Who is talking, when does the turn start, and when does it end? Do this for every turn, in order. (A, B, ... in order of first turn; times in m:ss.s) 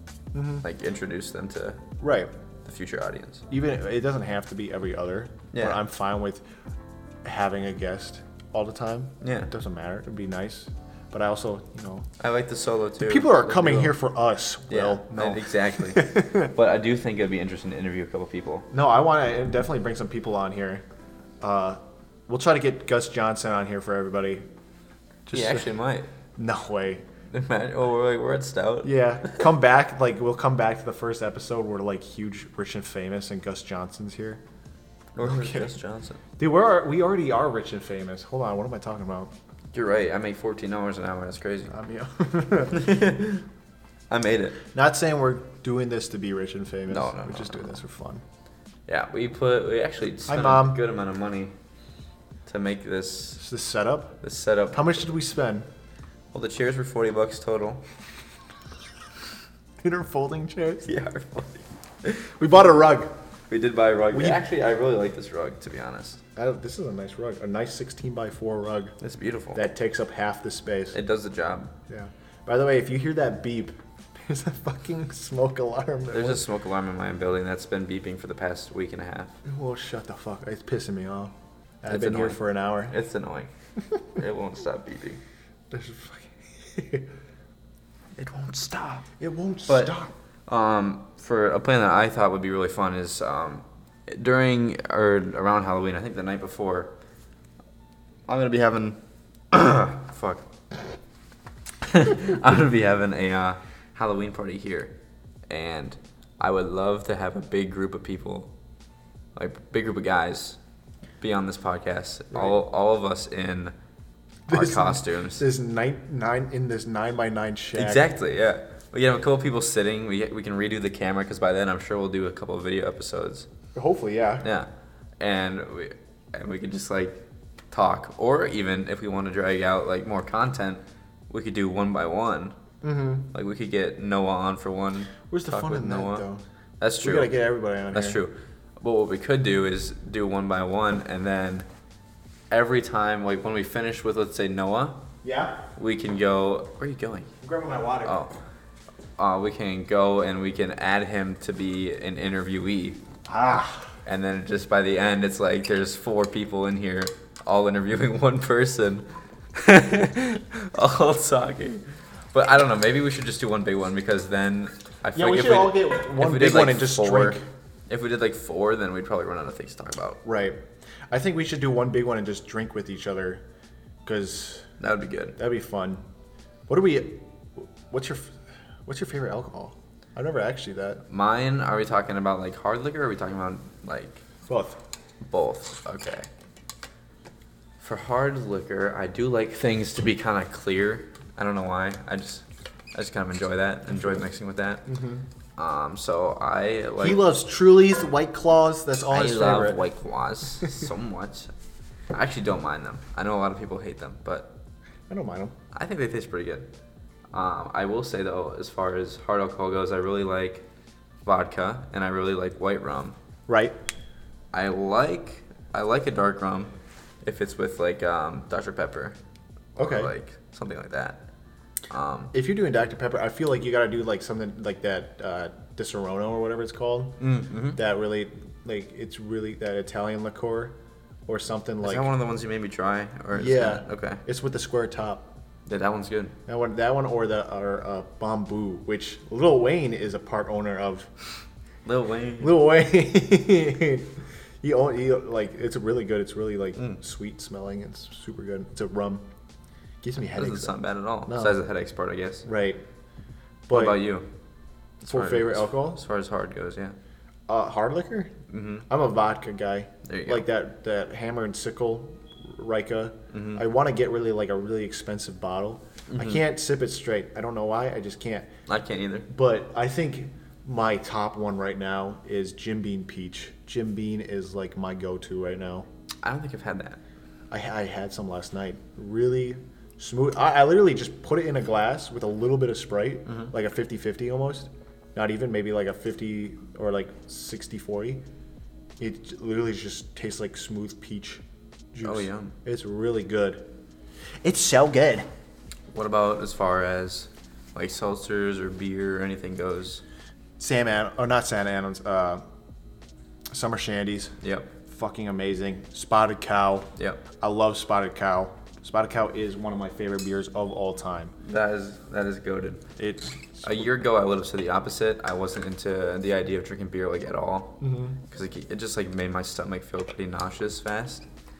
0:00.3-0:00.6 A
0:00.6-0:01.8 B
0:02.0-0:02.3 A
0:02.6-0:03.4 B
0:03.5-0:06.4 A
0:05.5-0:05.8 B
0:07.2-0:12.1 A
0:09.2-0:09.5 B
0:12.2-0:14.0 B
0:13.0-0:16.5 A
0:14.7-0:18.7 B
0:18.7-0:20.8 A
0:21.4-0:24.4 A
0:25.2-0:25.7 A
0:25.3-0:26.1 B
0:26.4-0:27.0 A
0:27.3-0:29.4 B
0:28.8-0:34.4 A
0:35.1-0:36.2 B
0:35.2-0:35.7 A
0:36.4-0:39.3 A
0:39.7-0:41.7 B
0:41.7-0:42.9 A
0:42.7-0:43.4 B
0:44.1-0:44.6 B
0:44.7-0:48.2 A
0:46.9-0:47.8 B
0:48.9-0:51.5 B
0:50.3-0:50.8 A
0:52.5-0:53.4 B
0:53.4-0:54.2 A
0:54.2-0:55.0 B
0:54.7-0:55.6 A
0:56.3-0:57.8 B
0:59.8-1:00.9 A
1:00.8-1:02.3 B
1:02.4-1:03.1 A
1:03.5-1:06.2 B
1:04.1-1:04.4 A
1:06.4-1:08.9 A
1:09.0-1:09.6 B
1:09.5-1:11.0 A
1:10.9-1:11.7 B
1:11.9-1:16.4 A
1:16.1-1:19.4 B
1:19.4-1:22.9 A
1:21.9-1:23.5 B
1:24.1-1:25.2 B
1:25.7-1:27.1 A
1:28.2-1:29.0 B
1:29.0-1:30.1 A
1:29.7-1:30.0 B
1:30.5-1:36.9 B
1:38.3-1:39.0 B
1:39.5-1:40.4 B
1:41.8-1:44.9 B
1:45.5-1:48.5 B
1:49.4-1:50.6 B
1:51.2-1:53.7 B
1:54.5-1:58.0 A
1:54.5-1:55.4 B
1:57.7-2:03.5 B
2:03.7-2:04.4 A
2:04.4-2:04.7 B
2:05.2-2:12.6 B
2:12.8-2:13.3 A
2:13.3-2:16.2 B
2:15.3-2:16.4 A
2:16.8-2:17.3 B
2:17.0-2:18.2 A
2:17.9-2:21.7 B
2:22.5-2:25.0 B
2:25.2-2:25.6 A
2:25.8-2:27.3 B
2:27.4-2:28.2 A
2:28.0-2:28.3 B
2:29.2-2:33.0 B
2:33.2-2:33.9 A
2:34.0-2:50.2 B
2:45.1-2:47.4 A
2:50.2-2:50.6 A
2:51.1-2:53.4 A
2:54.0-2:54.6 A
2:54.8-2:55.4 B
2:55.4-2:56.0 A
2:56.7-3:01.0 A
3:01.1-3:04.2 B
3:04.5-3:04.8 A
3:05.2-3:06.3 B
3:07.8-3:14.8 B
3:14.8-3:15.2 A
3:15.6-3:17.2 B
3:17.0-3:19.8 A
3:19.1-3:21.5 B
3:22.1-3:24.5 B
3:25.1-3:25.5 A
3:25.7-3:26.7 B
3:27.3-3:30.6 B
3:31.2-3:33.2 B
3:33.5-3:33.8 A
3:34.5-3:36.7 B
3:37.2-3:39.2 B
3:39.8-3:41.2 B
3:39.8-3:40.1 A
3:41.9-3:42.3 B
3:42.3-3:47.2 A
3:47.2-3:47.8 B
3:47.7-3:52.1 A
3:51.8-3:54.2 B
3:53.3-3:55.3 A
3:55.7-3:56.3 B
3:56.4-4:01.1 A
4:01.8-4:02.6 B
4:02.4-4:09.2 A
4:10.0-4:10.7 A
4:10.3-4:12.4 B
4:11.2-4:11.6 A
4:12.4-4:12.8 A
4:13.7-4:14.0 A
4:13.7-4:14.2 B
4:15.0-4:16.9 B
4:15.1-4:16.0 A
4:17.5-4:18.3 A
4:18.5-4:18.9 B
4:18.9-4:28.5 A
4:20.0-4:20.5 B
4:23.3-4:23.7 B
4:26.1-4:26.4 B
4:28.7-4:29.3 B
4:29.3-4:35.8 A
4:36.2-4:37.0 B
4:37.5-4:48.2 A
4:43.3-4:43.5 B
4:49.0-4:53.6 A
4:52.0-4:52.5 B
4:54.4-4:55.3 A
4:55.9-5:00.0 B
5:00.6-5:02.4 A
5:03.5-5:11.4 A
5:04.4-5:04.7 B
5:07.0-5:07.2 B
5:11.4-5:12.8 B
5:13.0-5:13.8 A
5:13.6-5:21.2 B
5:17.8-5:18.2 A